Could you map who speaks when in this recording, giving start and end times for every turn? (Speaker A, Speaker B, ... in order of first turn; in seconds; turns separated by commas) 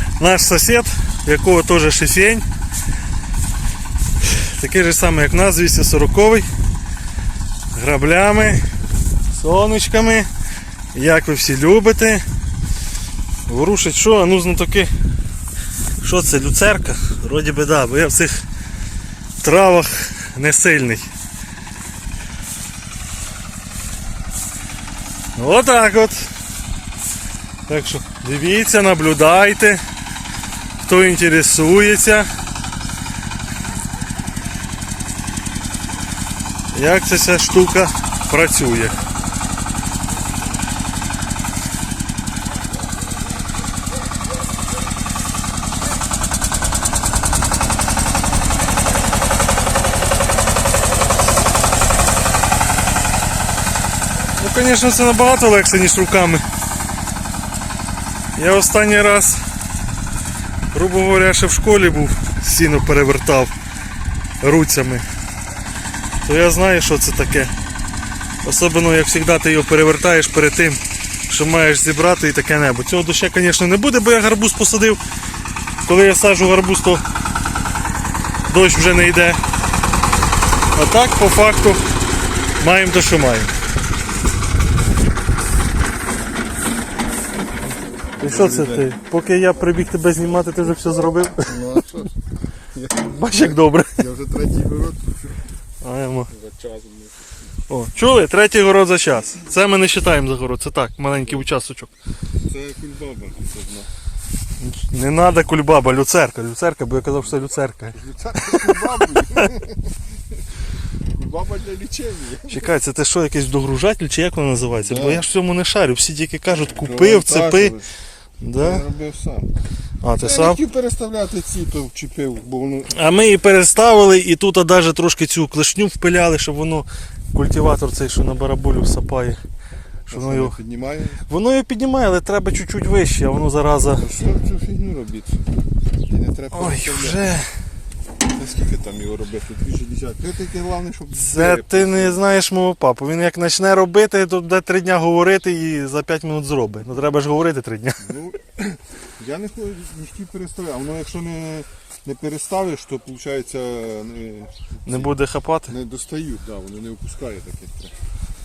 Speaker A: 0.2-2.5, Speaker A: 4.2-6.5, Speaker A: 7.7-8.6, Speaker A: 9.3-10.3, Speaker A: 10.9-12.2, Speaker A: 13.5-14.9, Speaker A: 16.0-18.4, Speaker A: 19.4-21.1, Speaker A: 25.4-26.3, Speaker A: 27.7-29.8, Speaker A: 30.8-32.3, Speaker A: 36.7-39.0, Speaker A: 54.4-56.4, Speaker A: 58.4-59.4, Speaker A: 60.7-63.5, Speaker A: 64.4-65.0, Speaker A: 66.2-67.5, Speaker A: 68.4-75.0, Speaker A: 75.9-77.0, Speaker A: 78.5-79.4, Speaker A: 80.7-81.8, Speaker A: 82.6-83.5, Speaker B: 88.2-88.9, Speaker A: 88.2-91.8, Speaker B: 91.4-92.2, Speaker B: 92.7-93.2, Speaker A: 93.0-94.0, Speaker B: 93.9-95.4, Speaker A: 95.8-96.3, Speaker B: 96.3-97.2, Speaker A: 97.7-101.9, Speaker B: 101.2-101.5, Speaker B: 102.4-103.9, Speaker A: 104.6-109.5, Speaker B: 107.2-110.0, Speaker B: 110.5-112.7, Speaker A: 112.5-117.8, Speaker B: 114.8-115.3, Speaker B: 116.6-117.9, Speaker A: 118.4-118.9, Speaker B: 118.5-119.5, Speaker A: 120.0-120.6, Speaker B: 120.2-122.9, Speaker A: 122.9-129.4, Speaker A: 130.1-130.6, Speaker B: 130.1-131.2, Speaker A: 131.3-134.1, Speaker B: 133.9-135.5, Speaker B: 136.1-137.3, Speaker A: 136.5-137.5, Speaker B: 138.2-142.2, Speaker A: 141.2-148.1, Speaker B: 148.0-158.0, Speaker A: 154.9-155.7